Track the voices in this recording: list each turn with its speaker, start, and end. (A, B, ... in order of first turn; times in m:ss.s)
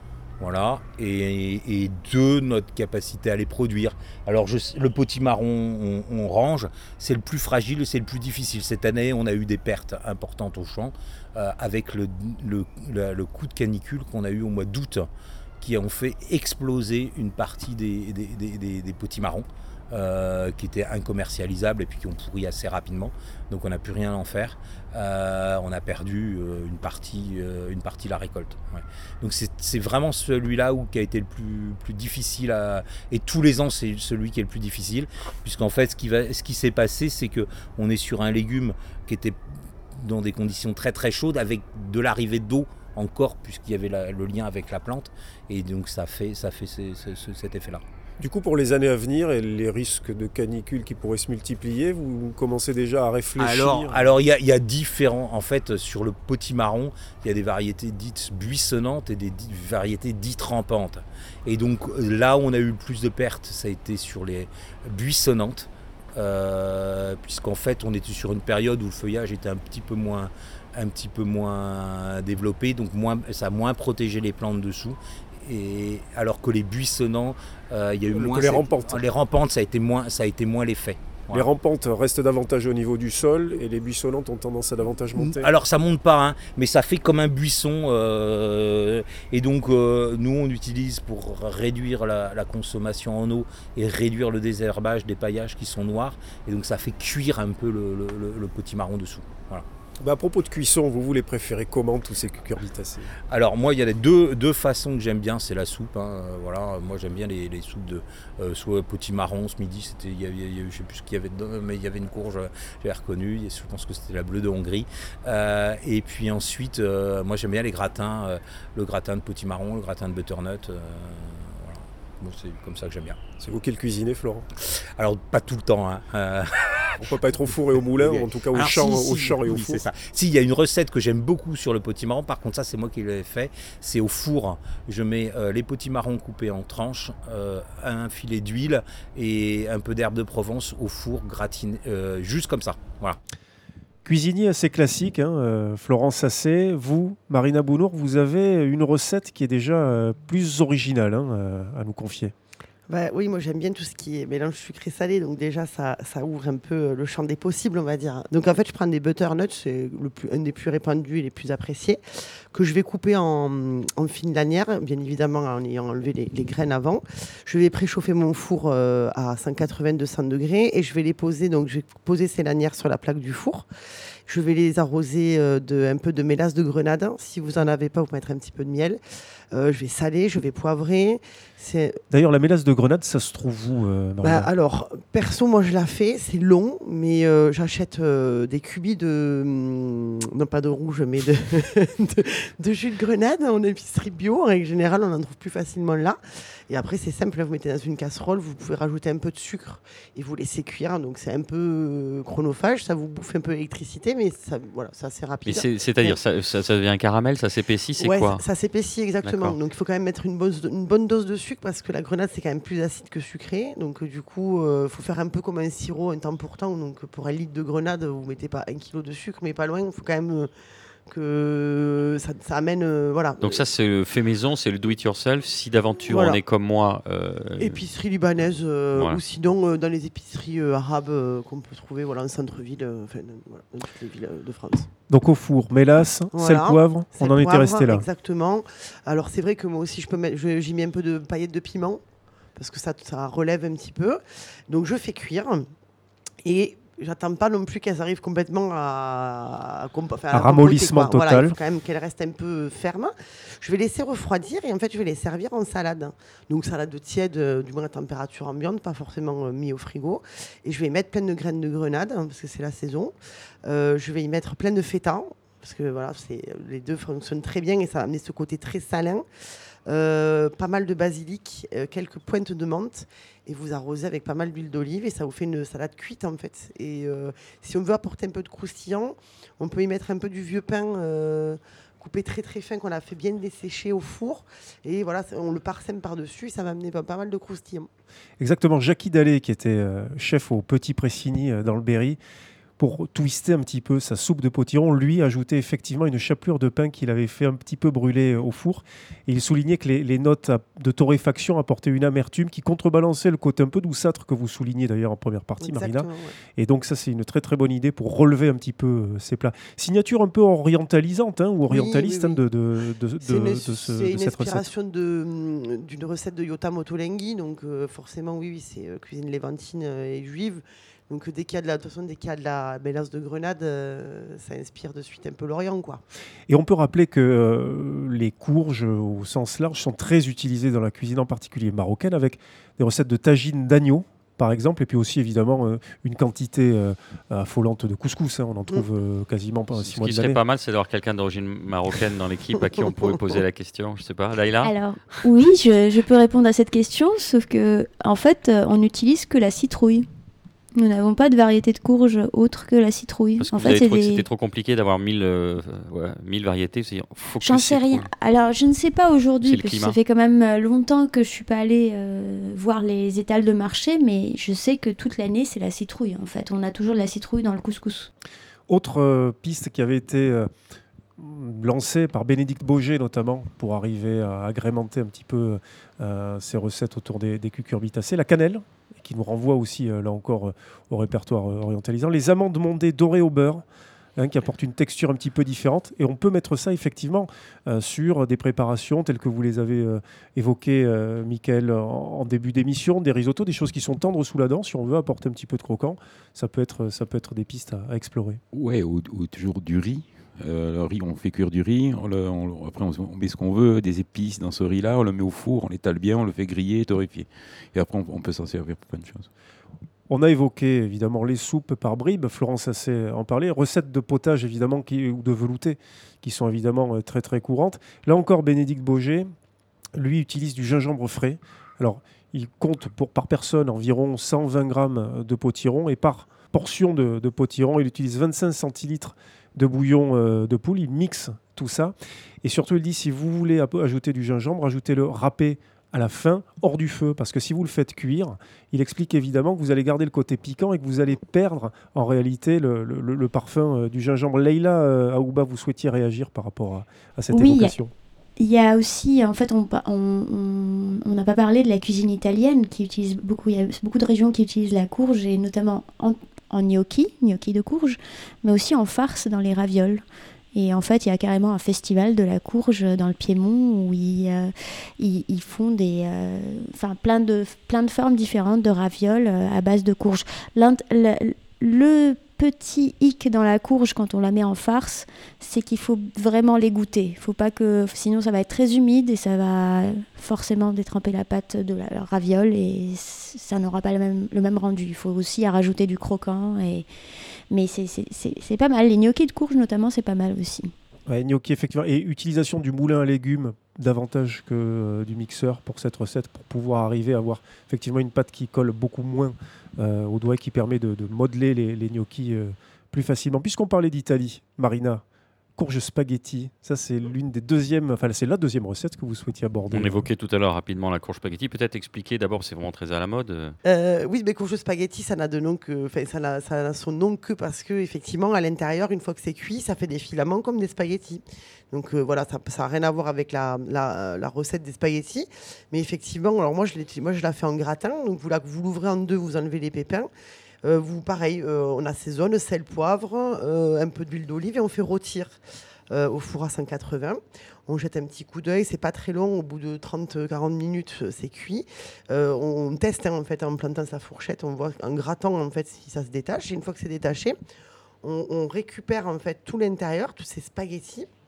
0:00.4-0:39.4 A
0:39.9-0:47.8 A
0:48.2-0:54.0 B
0:53.4-1:21.4 A
1:18.2-1:18.9 B
1:21.3-1:25.4 B
1:25.1-1:39.6 A
1:40.0-1:43.1 B
1:43.3-2:03.2 A
2:03.4-2:04.4 B
2:04.6-2:23.2 A
2:07.0-2:09.8 B
2:24.0-2:32.3 B
2:32.9-2:42.0 C
2:42.5-2:53.6 C
2:54.3-2:59.0 C
2:59.5-3:02.0 C
3:02.1-3:04.5 B
3:04.2-3:26.2 C
3:25.4-3:28.4 D
3:28.0-3:40.5 C
3:29.2-3:29.6 D
3:41.1-3:43.6 C
3:43.4-3:47.8 D
3:46.1-3:46.4 C
3:47.6-3:54.9 C
3:48.9-3:49.2 D
3:55.1-3:58.0 B
3:56.3-4:02.0 C
4:02.6-4:05.7 C
4:06.4-4:23.1 C
4:10.3-4:11.5 B
4:23.6-4:29.2 C
4:29.9-4:47.9 C
4:48.4-4:52.2 B
4:52.8-5:14.7 B
5:05.6-5:06.3 C
5:11.7-5:12.4 C
5:13.2-5:26.0 C
5:26.5-5:40.4 B
5:39.8-5:44.7 D
5:44.6-5:50.1 E
5:50.8-5:54.2 E
5:53.4-5:58.1 D
5:57.4-6:08.1 E
5:59.4-6:00.0 D
6:08.7-6:10.5 B
6:11.2-6:23.6 B
6:24.2-6:38.4 B
6:38.5-6:49.3 F
6:50.1-6:59.3 B
6:59.9-7:27.9 B
7:27.3-7:27.7 E
7:28.4-8:06.9 E
8:07.5-8:10.7 E
8:11.1-8:25.0 B
8:25.6-8:30.0 B
8:29.7-8:33.6 D
8:33.6-8:50.1 C
8:50.6-8:55.4 C
8:55.9-9:07.4 C
9:08.0-9:11.1 C